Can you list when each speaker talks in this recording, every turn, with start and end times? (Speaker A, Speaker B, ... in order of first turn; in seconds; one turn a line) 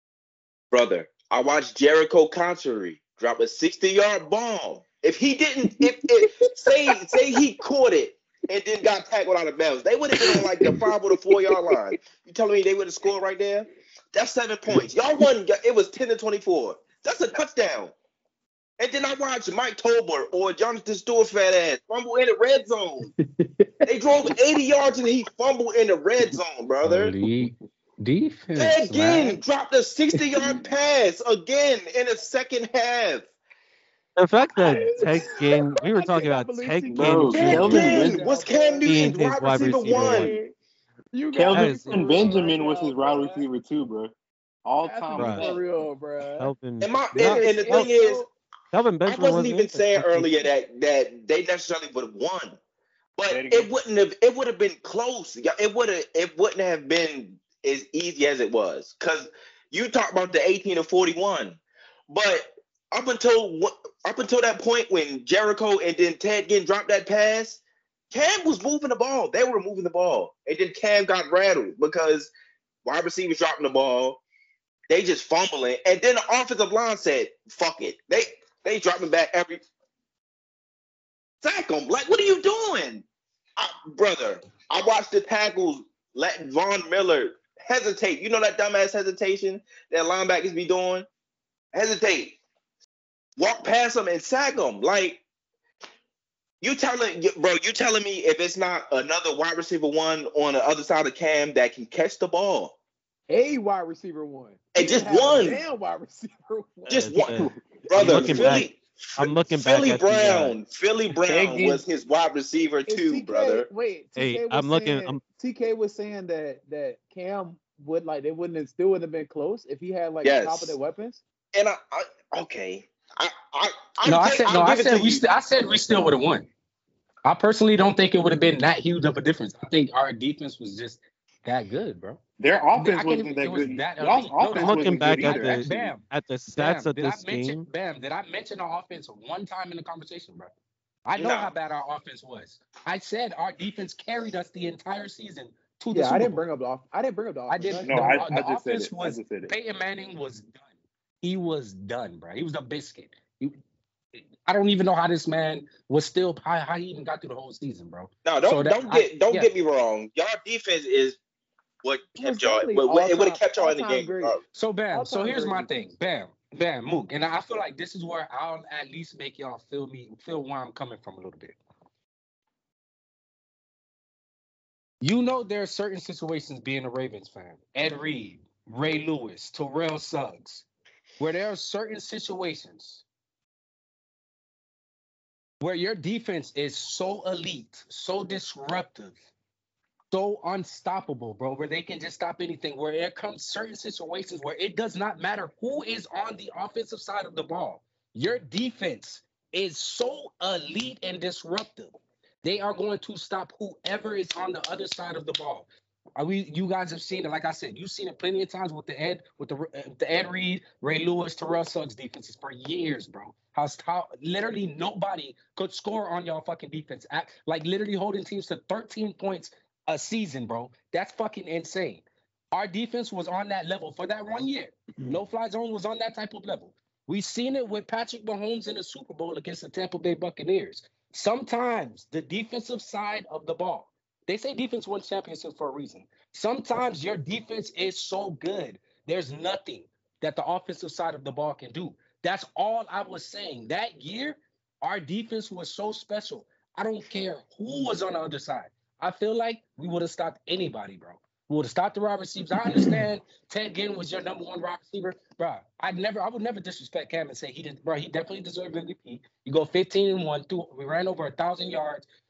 Speaker A: 0.7-17.9
Speaker B: 5.8-7.2
Speaker B: 10.2-11.8
Speaker A: 18.8-23.1
Speaker B: 23.5-23.9
Speaker A: 23.9-27.1
Speaker C: 26.8-29.4
Speaker A: 28.6-33.3
Speaker D: 34.2-38.0
Speaker B: 34.5-40.5
Speaker E: 36.9-38.2
Speaker A: 37.3-40.4
Speaker D: 38.8-40.4
Speaker B: 41.1-43.4
Speaker E: 41.3-44.1
Speaker D: 41.5-42.3
Speaker E: 44.6-45.7
Speaker B: 44.8-46.5
Speaker D: 45.1-45.5
Speaker D: 46.4-47.9
Speaker A: 46.8-48.2
Speaker B: 47.1-48.3
Speaker D: 48.7-50.5
Speaker A: 49.0-52.6
Speaker A: 53.2-67.6
Speaker E: 53.3-53.7
Speaker A: 68.1-72.3
Speaker A: 72.8-74.2
Speaker A: 74.9-79.6
Speaker A: 81.4-83.0
Speaker A: 83.6-91.0
Speaker A: 91.7-92.4
Speaker A: 93.4-95.2
Speaker A: 96.6-102.7
Speaker B: 103.3-107.3
Speaker A: 104.7-105.6
Speaker A: 106.9-113.7
Speaker D: 107.0-110.6
Speaker E: 108.0-108.3
Speaker B: 108.0-108.6
Speaker E: 111.1-111.8
Speaker B: 112.9-121.2
Speaker D: 114.2-115.2
Speaker A: 120.2-120.8
Speaker A: 121.5-125.2
Speaker C: 124.0-126.5
Speaker C: 127.2-132.2
Speaker E: 132.4-135.9
Speaker C: 132.7-140.5
Speaker D: 134.5-137.6
Speaker C: 141.1-146.4
Speaker A: 141.2-141.5
Speaker B: 145.9-148.3
Speaker C: 147.5-150.7
Speaker E: 147.7-149.5
Speaker C: 151.2-153.6
Speaker C: 154.4-159.5
Speaker A: 158.2-161.2
Speaker A: 161.8-164.4
Speaker B: 162.2-164.4
Speaker C: 164.5-171.6
Speaker B: 164.9-165.9
Speaker C: 175.0-180.6
Speaker C: 181.2-183.0
Speaker C: 185.6-189.2
Speaker C: 190.1-262.0